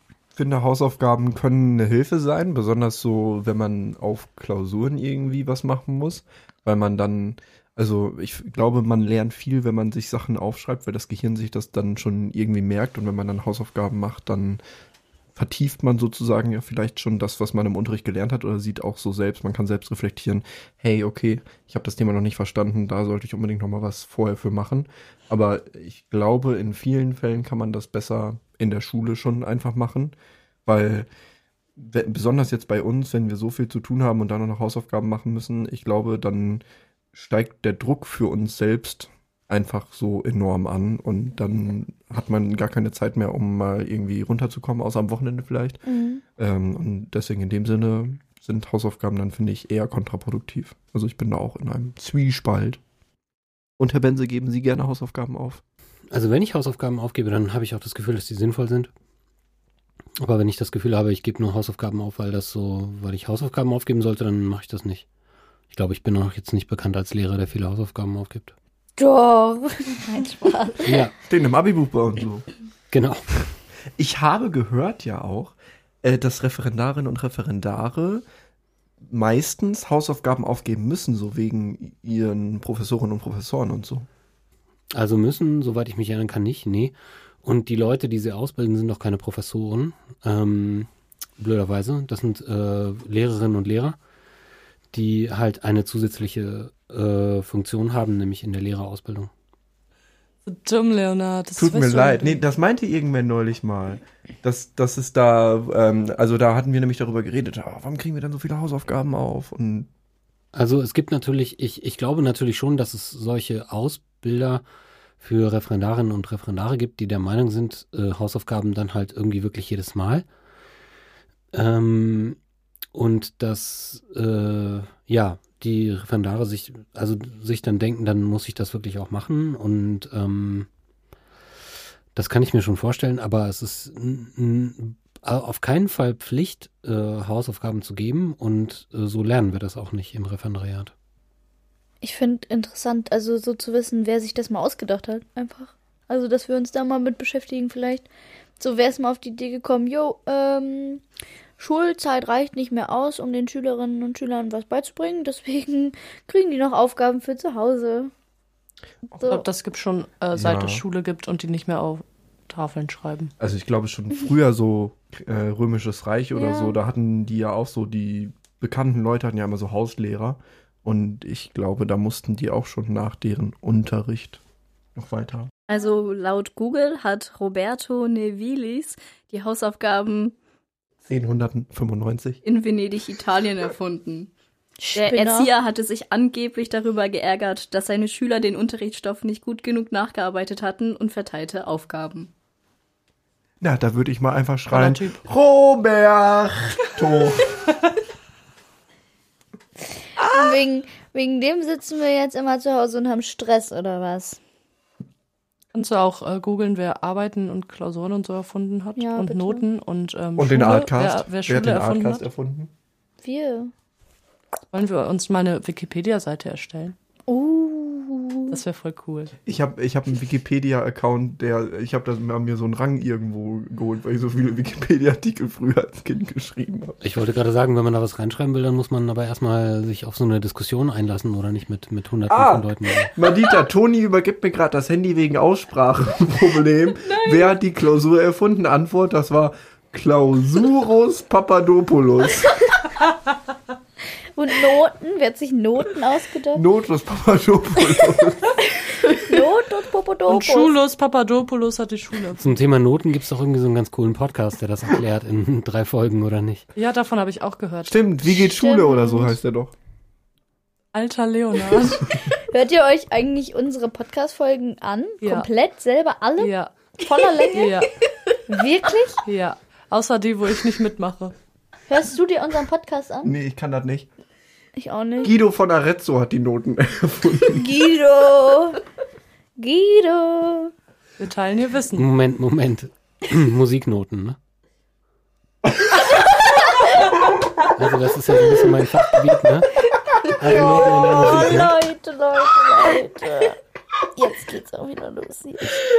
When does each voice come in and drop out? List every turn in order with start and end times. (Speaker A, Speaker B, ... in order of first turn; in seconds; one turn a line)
Speaker A: 0.3-14.6
Speaker A: 15.3-30.1
Speaker A: 30.6-31.1
Speaker A: 31.8-36.6
Speaker A: 37.1-45.8
Speaker B: 45.9-46.2
Speaker A: 46.4-52.8
Speaker A: 53.8-55.6
Speaker C: 56.1-58.9
Speaker C: 60.2-65.0
Speaker C: 65.7-68.5
Speaker B: 69.0-71.1
Speaker C: 70.8-71.1
Speaker A: 71.3-72.5
Speaker C: 72.9-73.4
Speaker A: 74.0-78.2
Speaker A: 79.0-84.1
Speaker C: 84.9-94.0
Speaker C: 94.9-99.3
Speaker D: 100.4-102.4
Speaker A: 101.6-109.9
Speaker C: 110.5-114.6
Speaker C: 115.2-120.2
Speaker C: 121.5-122.4
Speaker C: 122.9-130.7
Speaker C: 132.1-140.9
Speaker B: 142.0-148.1
Speaker B: 148.6-151.0
Speaker B: 151.6-158.1
Speaker D: 159.2-163.3
Speaker A: 160.3-160.8
Speaker A: 163.4-174.4
Speaker B: 166.3-166.8
Speaker A: 174.9-175.5
Speaker E: 175.7-180.3
Speaker A: 181.0-182.4
Speaker E: 182.4-184.3
Speaker B: 184.8-185.5
Speaker E: 184.9-192.3
Speaker A: 193.6-197.6
Speaker D: 194.7-195.2
Speaker B: 200.2-204.4
Speaker A: 200.2-200.5
Speaker D: 205.7-212.2
Speaker B: 209.0-209.6
Speaker A: 210.4-212.7
Speaker B: 213.2-213.7
Speaker D: 214.7-216.9
Speaker B: 217.3-218.6
Speaker D: 218.5-219.3
Speaker A: 219.4-227.0
Speaker C: 227.0-233.1
Speaker A: 232.3-242.5
Speaker B: 244.3-246.6
Speaker A: 246.5-248.6
Speaker B: 249.1-250.7
Speaker D: 250.3-252.6
Speaker C: 252.4-256.6
Speaker D: 256.8-258.0
Speaker A: 257.9-259.7
Speaker B: 258.5-259.3
Speaker D: 260.9-262.1
Speaker B: 262.3-267.9
Speaker D: 265.2-265.5
Speaker D: 266.4-266.7
Speaker D: 267.5-267.9
Speaker B: 268.5-269.2
Speaker D: 269.2-271.3
Speaker B: 271.9-273.3
Speaker A: 273.2-274.1
Speaker B: 274.8-275.3
Speaker A: 275.2-277.6
Speaker B: 277.5-278.8
Speaker B: 279.6-280.7
Speaker D: 281.2-282.1
Speaker C: 281.9-284.4
Speaker C: 287.8-289.7
Speaker C: 290.4-291.8
Speaker B: 290.5-293.6
Speaker B: 294.1-295.8